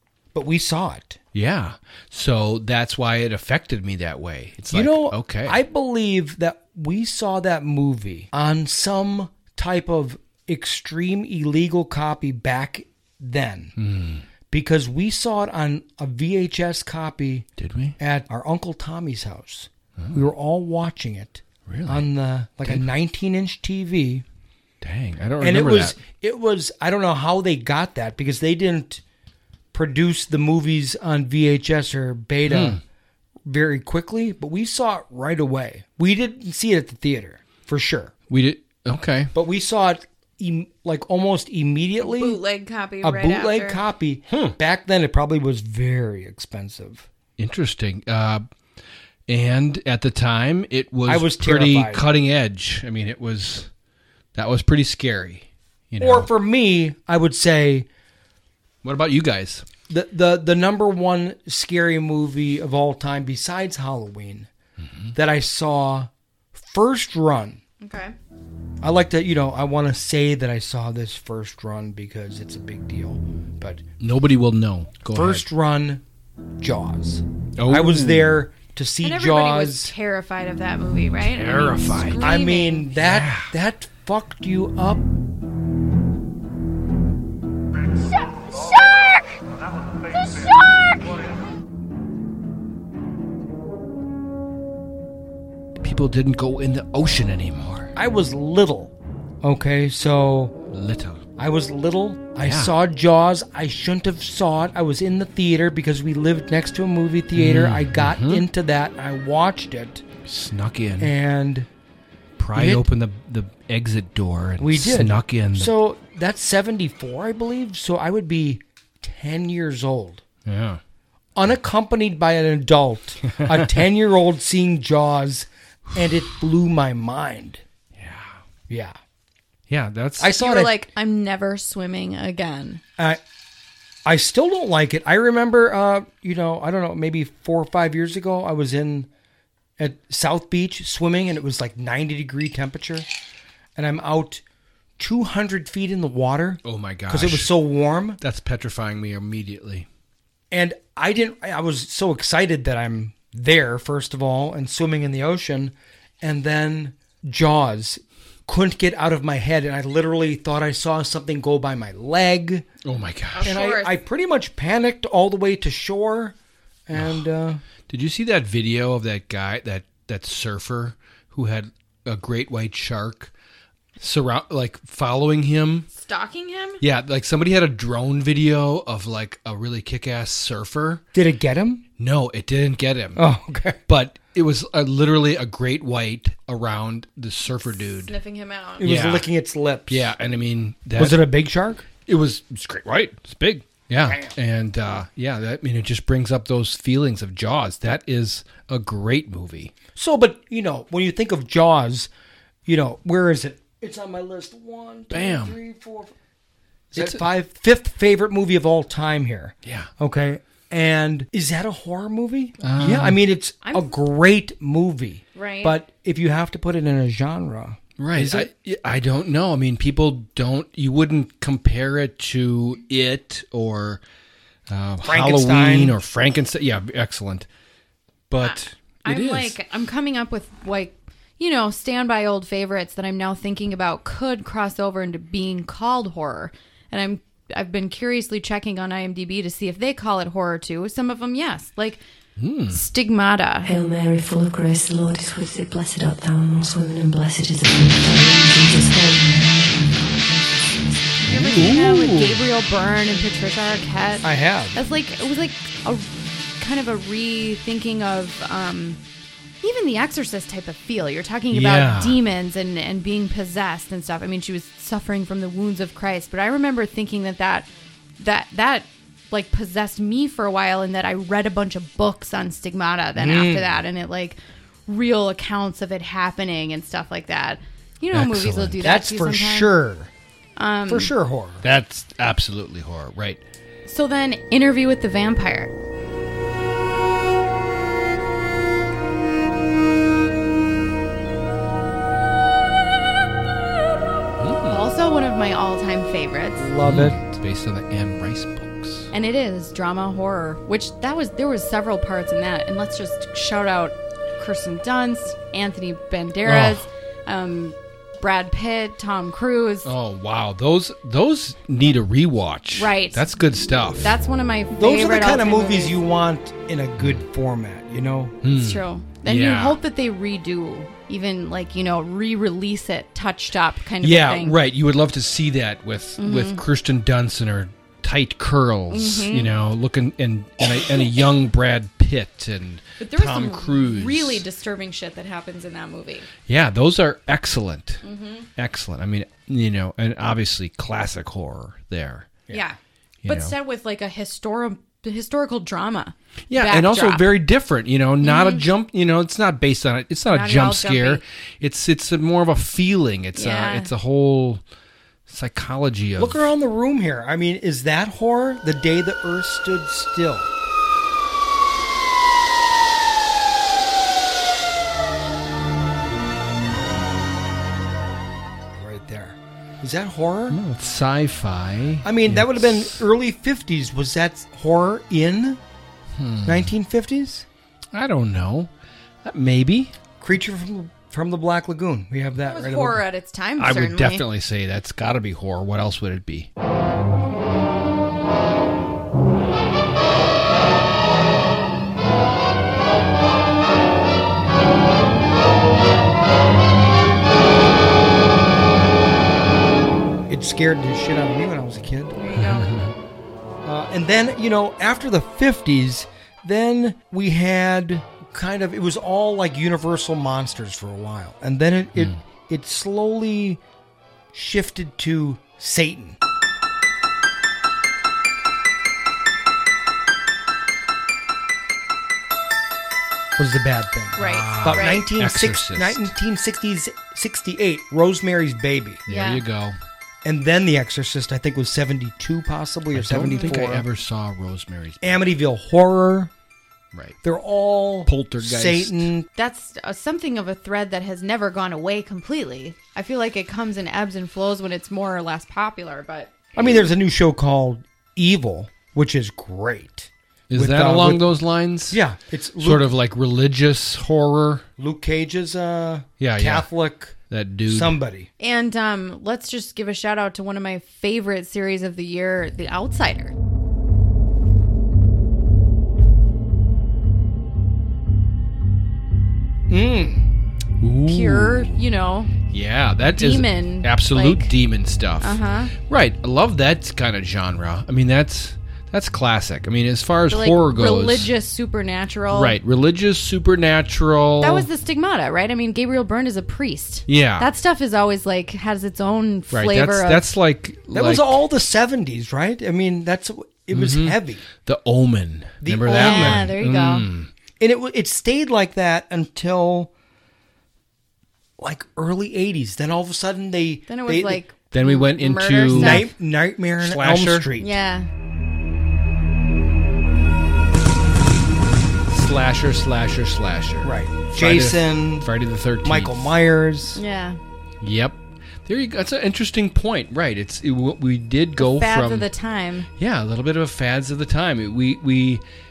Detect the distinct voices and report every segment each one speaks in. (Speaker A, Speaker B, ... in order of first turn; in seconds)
Speaker A: 0.3-1.2, 4.7-13.8, 14.5-17.5, 18.0-24.2, 25.4-29.0, 29.7-32.8, 33.5-38.1, 39.3-42.4, 43.0-47.1, 51.1-52.1, 56.0-57.9, 59.9-64.5, 65.1-67.6, 68.8-73.8, 75.1-76.0, 76.6-79.9, 82.2-85.0, 98.0-100.6, 101.4-110.0, 111.0-111.7, 112.5-112.8, 114.6-120.2, 121.4-127.6, 128.7-129.0, 130.2-130.8, 134.1-139.1, 139.8-143.1, 143.8-144.4, 145.0-148.2, 150.5-162.7, 163.4-166.3, 166.9-167.6, 181.1-181.8, 183.2-183.8, 188.8-190.1, 191.0-191.9, 194.1-194.3, 199.9-202.1, 202.7-206.1, 206.9-218.5, 225.0-226.0, 254.2-254.8, 273.2-273.7, 278.8-280.1, 280.9-281.6, 296.6-297.3, 314.7-318.4, 356.2-360.5, 368.7-370.6, 372.0-375.6, 376.4-377.5, 380.2-383.0, 400.3-402.2, 403.6-413.6, 414.3-416.2, 423.4-429.0, 430.2-433.9, 435.0-436.3, 437.2-439.3, 446.6-451.3, 451.9-452.9, 454.8-457.2, 457.7-458.3, 469.7-470.2, 490.9-494.4, 495.6-496.5, 497.6-499.9, 501.6-504.4, 505.7-507.7, 513.8-515.3, 515.8-517.0
Speaker B: 1.3-5.6, 13.8-14.2, 17.6-18.0, 20.0-20.3, 21.7-22.1, 24.8-26.0, 32.5-32.8, 38.3-39.3, 44.3-44.5, 47.4-48.4, 49.3-53.7, 54.3-56.3, 58.8-59.7, 64.8-65.1, 74.0-75.5, 77.6-78.4, 81.2-82.4, 82.9-83.5, 95.8-97.9, 100.7-101.2, 102.4-102.7, 107.3-108.5, 110.2-111.1, 112.4-115.7, 120.5-120.8, 123.3-123.7, 128.0-128.4, 129.7-130.4, 146.6-147.5, 148.2-149.9, 162.8-163.6, 166.9-167.2, 167.9-173.3, 174.0-175.9, 176.8-181.0, 182.0-183.2, 183.9-188.1, 188.8-189.3, 189.9-191.3, 192.1-199.7, 205.1-205.6, 206.9-207.2, 209.6-209.9, 212.6-213.2, 218.0-224.0, 224.7-227.5, 228.3-229.6, 242.4-242.8, 251.3-252.4, 261.5-262.2, 278.1-278.8, 281.6-283.4, 294.4-294.8, 296.8-299.1, 306.4-306.9, 309.8-314.1, 318.4-319.8, 324.0-334.4, 336.5-338.0, 338.6-342.4, 343.2-343.6, 346.5-354.6, 355.3-356.5, 370.5-373.0, 376.1-376.7, 377.9-378.7, 379.2-379.9, 383.6-386.5, 402.3-402.9, 424.2-426.1, 429.1-429.8, 432.9-435.2, 438.1-439.1, 450.5-452.0, 452.6-454.7, 456.2-456.7, 457.3-458.0, 470.8-471.8, 472.5-481.3, 482.3-484.7, 487.1-487.5, 489.5-491.4, 493.7-497.3, 504.7-506.1, 506.8-507.5, 512.1-516.2, 517.8-522.3, 523.0-525.4
Speaker C: 42.0-43.8, 67.8-68.1, 79.0-82.8, 130.3-132.8, 163.4-163.9, 175.9-176.8, 187.7-188.8, 213.6-213.9, 215.3-215.8, 228.4-242.0, 242.7-243.7, 251.2-259.0, 259.6-279.8, 280.6-281.1, 283.9-285.7, 294.7-296.7, 299.1-309.9, 312.8-313.2, 314.0-316.0, 318.5-324.6, 326.2-326.6, 328.9-329.5, 333.0-336.3, 338.0-338.5, 342.5-347.3, 348.2-348.7, 350.3-351.2, 353.4-353.9, 382.4-384.2, 402.2-402.7, 424.2-425.1, 429.1-429.4, 433.3-433.6, 439.4-446.5, 458.4-463.3, 471.1-472.4, 473.1-474.5, 475.2-475.7, 480.3-482.6, 484.4-490.2, 495.9-497.1, 503.9-506.1, 507.6-508.1, 517.0-517.4, 521.6-522.9
Speaker D: 243.6-250.6